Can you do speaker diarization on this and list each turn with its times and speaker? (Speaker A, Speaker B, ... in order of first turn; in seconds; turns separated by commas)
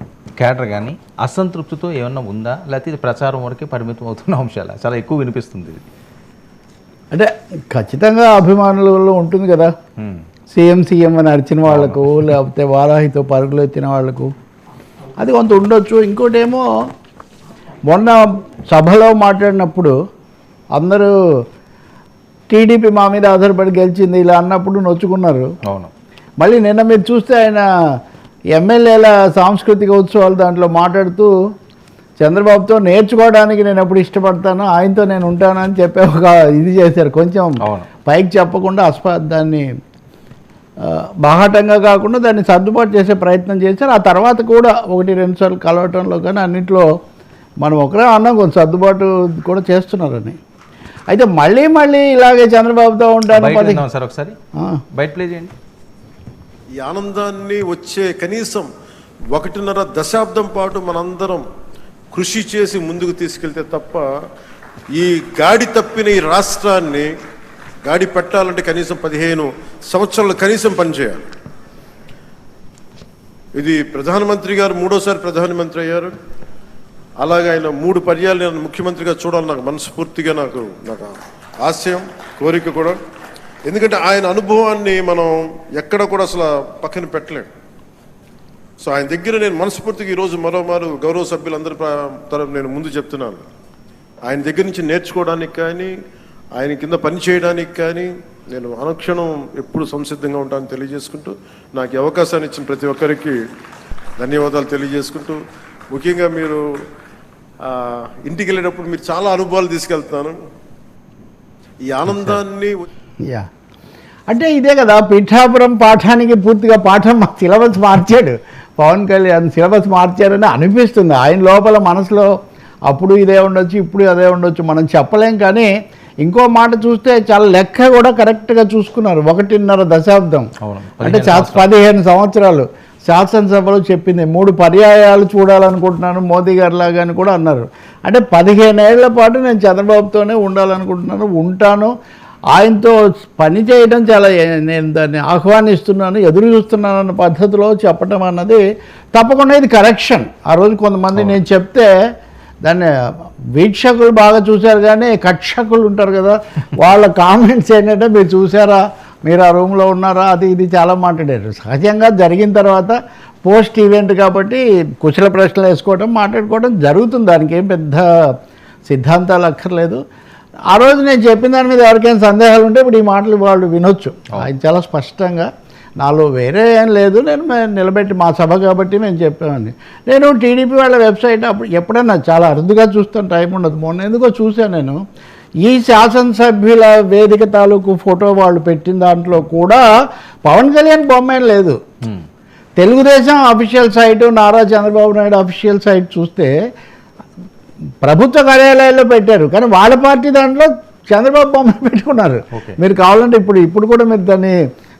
Speaker A: 0.4-5.8, Speaker B: 7.1-9.7, Speaker A: 10.0-10.2, Speaker B: 10.5-14.3, Speaker A: 11.7-12.1, Speaker B: 15.2-16.6, Speaker B: 17.9-19.9, Speaker B: 20.7-21.1, Speaker B: 22.5-25.5, Speaker B: 26.4-27.6, Speaker B: 28.5-31.3, Speaker B: 32.2-39.6, Speaker A: 37.6-37.9, Speaker B: 40.8-46.8, Speaker B: 47.6-50.4, Speaker B: 51.1-53.8, Speaker A: 53.3-54.3, Speaker A: 54.9-55.5, Speaker C: 56.8-58.7, Speaker C: 59.3-61.5, Speaker C: 62.1-64.1, Speaker C: 64.9-67.1, Speaker C: 67.8-71.2, Speaker C: 73.5-76.1, Speaker C: 77.2-83.0, Speaker C: 83.7-87.5, Speaker C: 88.8-93.4, Speaker C: 94.3-95.9, Speaker C: 96.6-103.4, Speaker C: 104.2-105.4, Speaker C: 105.9-106.6, Speaker C: 107.6-110.4, Speaker C: 111.8-112.7, Speaker A: 112.1-112.4, Speaker B: 114.3-122.3, Speaker B: 122.9-125.7, Speaker B: 126.2-130.5, Speaker A: 130.6-131.6, Speaker B: 131.0-141.9, Speaker B: 142.5-148.6, Speaker B: 149.1-151.9, Speaker B: 152.6-152.9, Speaker B: 153.5-168.0, Speaker B: 168.8-170.0, Speaker B: 170.7-175.5, Speaker B: 176.0-185.0, Speaker B: 185.6-189.8, Speaker B: 190.4-191.8, Speaker B: 192.8-196.5, Speaker B: 198.0-204.6, Speaker A: 202.5-202.8